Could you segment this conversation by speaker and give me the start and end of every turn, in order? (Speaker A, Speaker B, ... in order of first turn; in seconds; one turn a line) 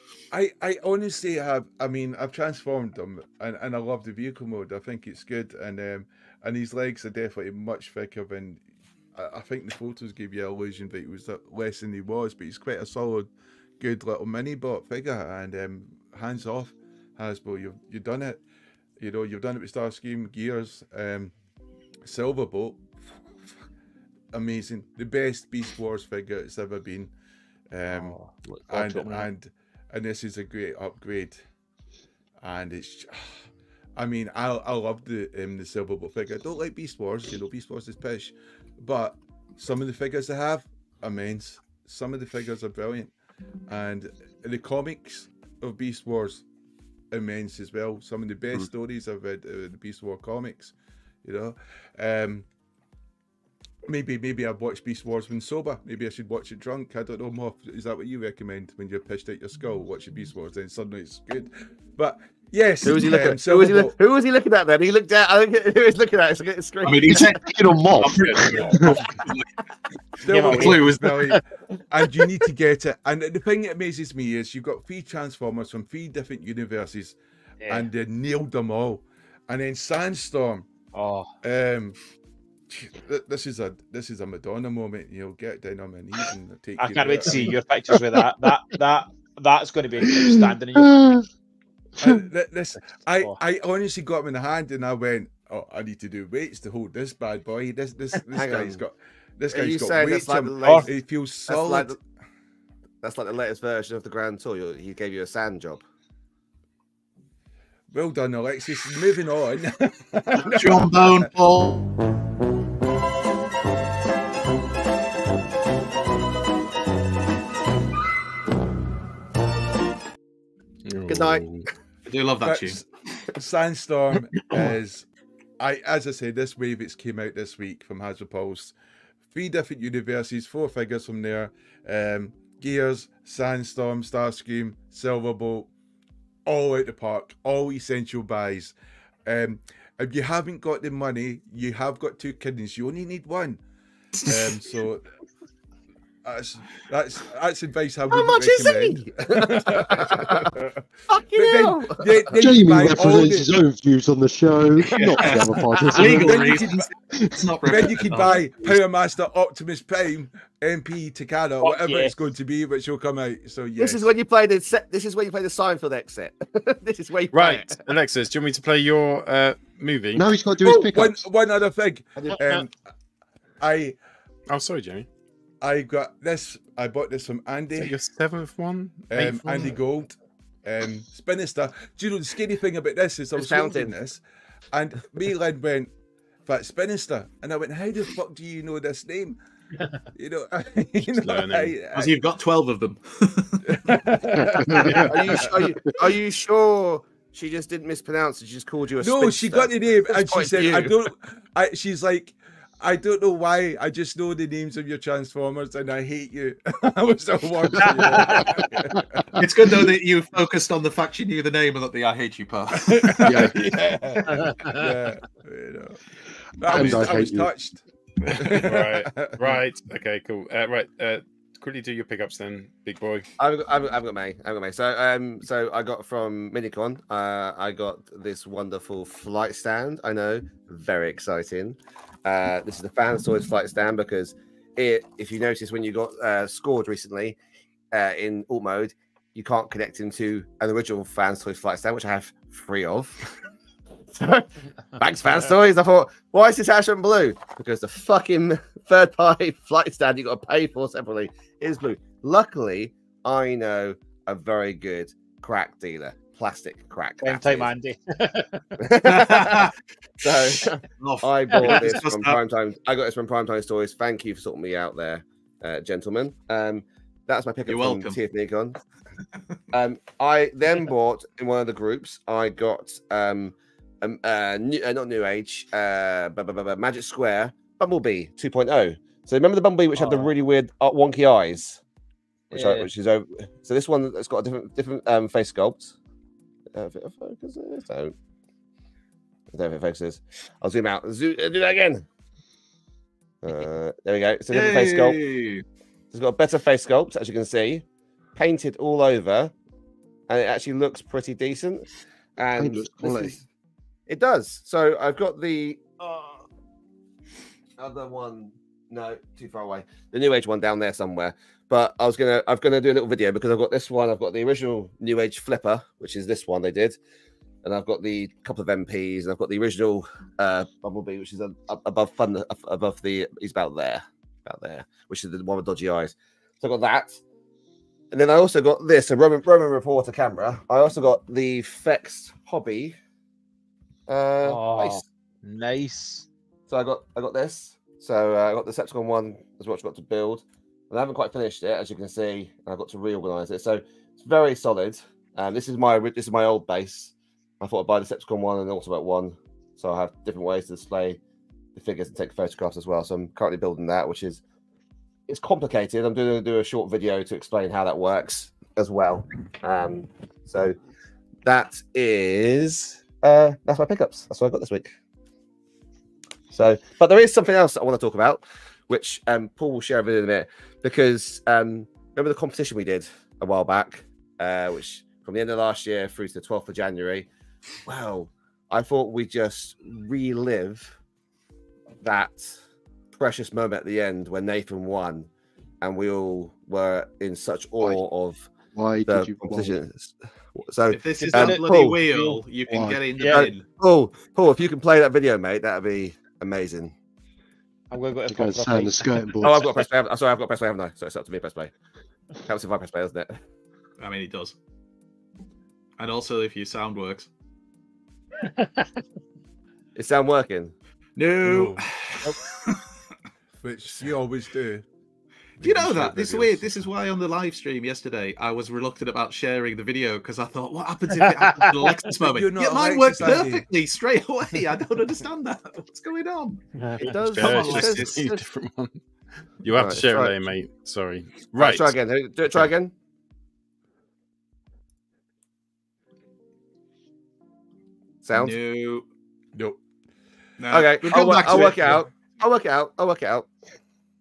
Speaker A: 0.3-8.6
Speaker A: 9.1-18.4
Speaker A: 19.0-21.3
Speaker A: 22.0-23.6
Speaker A: 24.3-27.1
Speaker A: 27.7-28.2
Speaker B: 27.9-29.3
Speaker A: 28.7-31.4
Speaker A: 32.4-33.4
Speaker A: 34.0-43.1
Speaker A: 43.7-46.4
Speaker A: 47.1-52.5
Speaker A: 53.9-64.0
Speaker C: 62.8-67.3
Speaker D: 66.8-67.4
Speaker E: 67.2-69.0
Speaker D: 68.0-69.5
Speaker A: 70.2-77.2
Speaker B: 70.3-71.4
Speaker D: 70.4-71.1
Speaker B: 77.6-77.9
Speaker A: 77.7-80.7
Speaker B: 80.9-81.3
Speaker A: 81.4-82.0
Speaker A: 82.7-87.5
Speaker B: 86.8-91.0
Speaker E: 90.2-91.2
Speaker A: 92.0-102.0
Speaker C: 98.3-98.8
Speaker C: 99.5-100.9
Speaker C: 101.5-101.9
Speaker C: 103.0-105.8
Speaker A: 107.9-111.3
Speaker D: 110.5-111.8
Speaker F: 120.9-121.7
Speaker C: 121.1-121.4
Speaker D: 122.0-122.8
Speaker A: 122.4-125.0
Speaker A: 125.6-128.7
Speaker A: 129.3-135.7
Speaker A: 136.4-138.7
Speaker A: 139.2-143.6
Speaker D: 144.2-144.5
Speaker A: 144.2-145.1
Speaker A: 146.2-150.8
Speaker C: 148.1-150.5
Speaker C: 151.1-152.2
Speaker A: 151.3-153.5
Speaker E: 152.3-156.6
Speaker D: 154.9-158.7
Speaker A: 155.9-156.8
Speaker E: 157.1-157.8
Speaker A: 157.6-164.1
Speaker B: 161.6-162.1
Speaker C: 163.8-167.8
Speaker F: 167.3-170.2
Speaker E: 170.1-171.2
Speaker A: 170.6-172.7
Speaker A: 173.6-173.9
Speaker F: 174.5-175.1
Speaker A: 175.6-177.9
Speaker F: 177.8-179.7
Speaker A: 179.1-180.1
Speaker A: 180.6-184.2
Speaker C: 183.4-183.9
Speaker A: 184.7-185.9
Speaker A: 186.4-189.4
Speaker A: 190.1-192.1
Speaker F: 191.2-191.8
Speaker D: 191.9-193.9
Speaker A: 193.7-195.7
Speaker E: 194.4-195.1
Speaker C: 194.9-200.9
Speaker A: 199.0-209.4
Speaker D: 207.8-208.5
Speaker D: 209.4-213.7
Speaker A: 212.8-216.0
Speaker E: 213.3-213.5
Speaker B: 214.4-214.8
Speaker A: 216.6-217.8
Speaker E: 216.7-217.5
Speaker A: 218.3-219.6
Speaker F: 218.4-223.3
Speaker C: 223.4-237.4
Speaker C: 237.9-243.2
Speaker C: 244.1-244.4
Speaker C: 245.0-257.7
Speaker B: 257.2-258.6
Speaker C: 258.8-259.7
Speaker D: 259.0-259.7
Speaker C: 260.2-268.8
Speaker D: 260.3-262.4
Speaker B: 261.6-261.8
Speaker D: 267.7-268.2
Speaker C: 269.7-281.8
Speaker B: 279.9-280.3
Speaker B: 282.5-282.9
Speaker C: 282.5-285.9
Speaker C: 286.7-288.1
Speaker C: 289.5-292.0
Speaker C: 293.4-295.2
Speaker D: 294.5-295.6
Speaker C: 296.1-297.8
Speaker C: 298.4-299.5
Speaker C: 300.3-303.4
Speaker E: 302.6-303.4
Speaker C: 304.1-305.9
Speaker C: 307.8-317.0
Speaker C: 317.6-327.2
Speaker C: 328.1-332.9
Speaker C: 334.1-335.0
Speaker B: 334.4-336.2
Speaker C: 336.7-351.2
Speaker C: 351.8-354.4
Speaker C: 355.3-360.7
Speaker C: 361.4-364.9
Speaker C: 366.5-377.3
Speaker C: 377.9-380.9
Speaker C: 382.0-382.5
Speaker C: 383.1-385.3
Speaker C: 385.8-388.5
Speaker E: 388.7-389.8
Speaker C: 389.1-392.0
Speaker D: 390.9-393.6
Speaker B: 391.1-392.4
Speaker E: 392.7-393.0
Speaker B: 393.2-393.5
Speaker C: 393.3-396.9
Speaker B: 397.9-399.1
Speaker E: 398.3-399.6
Speaker C: 399.4-401.7
Speaker C: 402.4-403.3
Speaker D: 404.0-404.6
Speaker D: 406.0-407.3
Speaker C: 409.9-410.7
Speaker D: 411.2-412.8
Speaker A: 411.4-411.8
Speaker A: 413.6-414.9
Speaker A: 415.6-416.9
Speaker D: 415.6-426.6
Speaker B: 421.2-422.0
Speaker A: 422.2-423.7
Speaker B: 426.8-427.1
Speaker C: 427.0-428.4
Speaker F: 427.2-429.0
Speaker D: 427.3-428.2
Speaker F: 429.6-431.9
Speaker C: 429.7-430.3
Speaker C: 431.5-432.9
Speaker C: 438.2-438.6
Speaker D: 438.3-439.0
Speaker A: 439.5-439.8
Speaker D: 440.6-442.1
Speaker C: 440.7-443.5